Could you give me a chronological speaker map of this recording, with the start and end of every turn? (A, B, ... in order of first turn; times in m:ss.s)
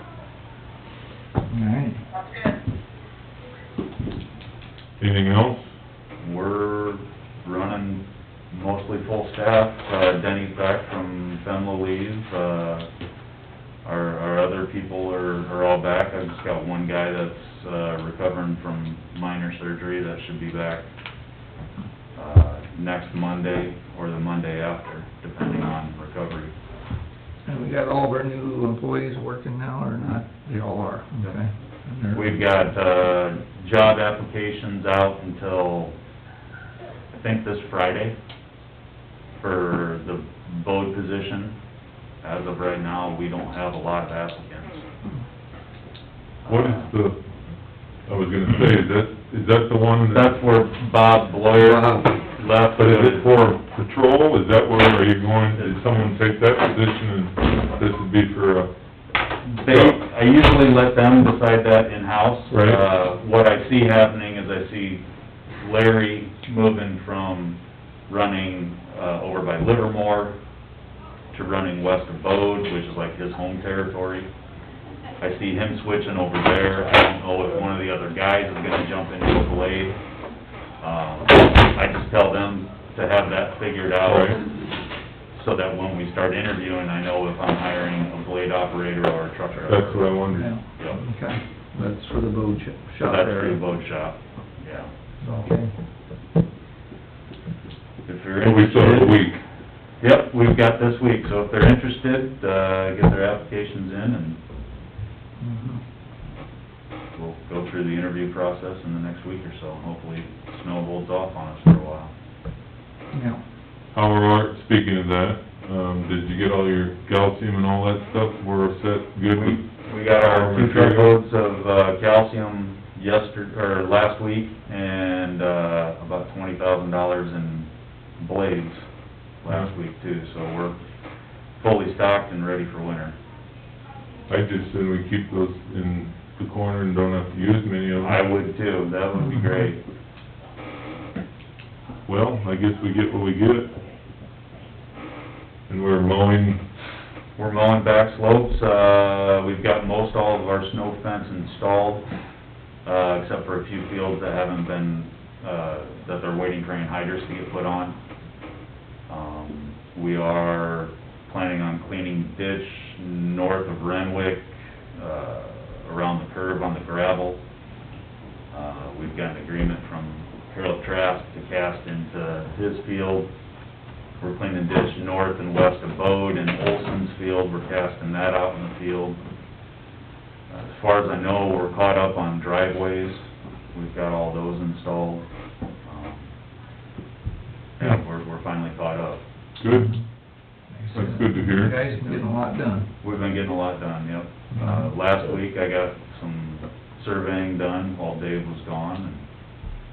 0:01.5-0:02.0 A
0:05.0-0:05.7 B
0:06.2-0:12.9 C
0:13.8-0:20.8 C
0:22.1-0:26.5 C
0:27.4-0:32.2 A
0:32.1-0:35.9 C
0:37.1-0:38.2 C
0:39.4-0:41.6 C
0:42.2-0:44.8 C
0:46.4-0:46.8 C
0:46.5-0:47.2 B
0:48.0-0:50.4 B
0:50.1-0:53.4 C
0:51.6-0:52.1 A
0:52.8-0:58.7 B
0:55.5-0:56.1 C
0:59.5-1:05.0 C
0:59.6-1:00.0 B
1:02.5-1:02.8 B
1:05.6-1:10.4 C
1:11.3-1:14.3 C
1:15.2-1:20.0 C
1:20.8-1:24.4 C
1:24.0-1:24.4 B
1:25.3-1:30.1 C
1:29.6-1:30.5 B
1:30.3-1:33.6 A
1:33.0-1:34.9 C
1:35.2-1:35.7 A
1:38.0-1:39.2 C
1:38.4-1:39.4 B
1:40.0-1:44.4 C
1:45.4-1:45.8 A
1:47.1-1:52.1 C
1:53.1-1:53.4 A
1:53.9-2:01.2 B
1:59.3-2:08.9 C
2:09.4-2:10.8 C
2:11.6-2:13.1 C
2:14.3-2:18.2 B
2:18.0-2:19.8 C
2:22.0-2:23.8 B
2:25.7-2:26.6 B
2:27.4-2:32.0 C
2:32.8-2:38.0 C
2:39.1-2:47.4 C
2:48.5-2:53.3 C
2:54.2-2:59.2 C
3:00.5-3:05.2 C
3:05.8-3:06.3 C
3:07.8-3:09.2 C
3:09.6-3:09.9 B
3:09.7-3:10.0 A
3:10.7-3:12.9 A
3:10.9-3:11.8 B
3:13.0-3:19.2 C
3:14.5-3:14.9 A